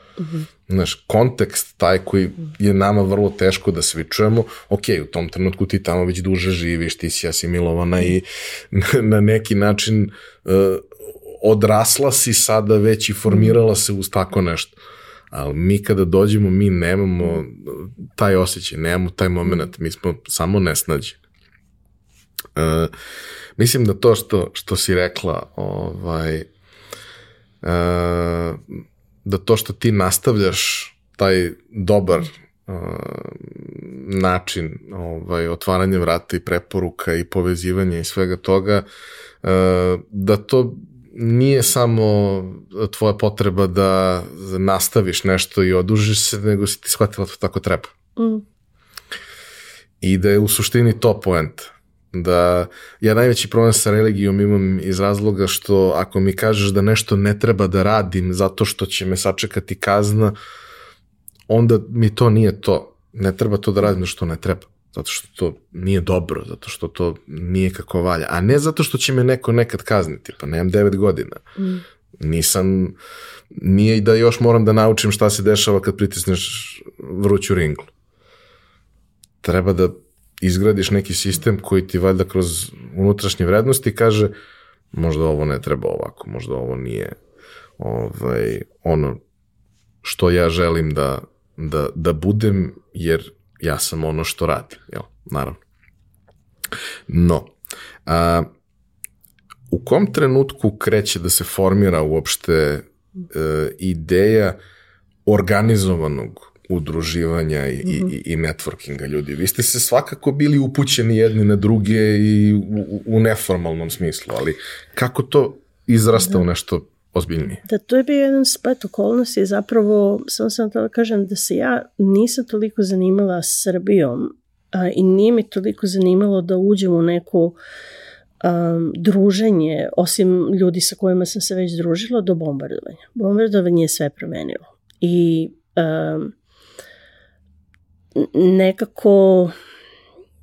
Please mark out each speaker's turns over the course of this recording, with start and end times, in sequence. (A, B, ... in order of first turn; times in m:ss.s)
0:00.2-0:00.4 A
0:00.7-0:14.8 B
0:15.3-0:21.2 B
0:22.6-0:22.9 B
0:23.6-0:26.5 B
0:27.6-0:38.9 B
0:39.4-0:47.9 B
0:48.2-0:48.4 A
0:50.0-1:00.4 B
1:01.5-1:11.4 B
1:11.6-1:11.8 A
1:12.2-1:13.0 B
1:13.5-1:17.9 B
1:19.4-1:24.3 B
1:24.9-1:27.2 B
1:27.8-1:29.2 B
1:30.0-1:35.6 B
1:37.1-1:37.5 B
1:38.1-1:38.5 B
1:39.7-1:44.6 B
1:45.3-1:57.6 B
1:57.6-2:07.6 A
2:08.4-2:16.3 A
2:18.2-2:19.6 A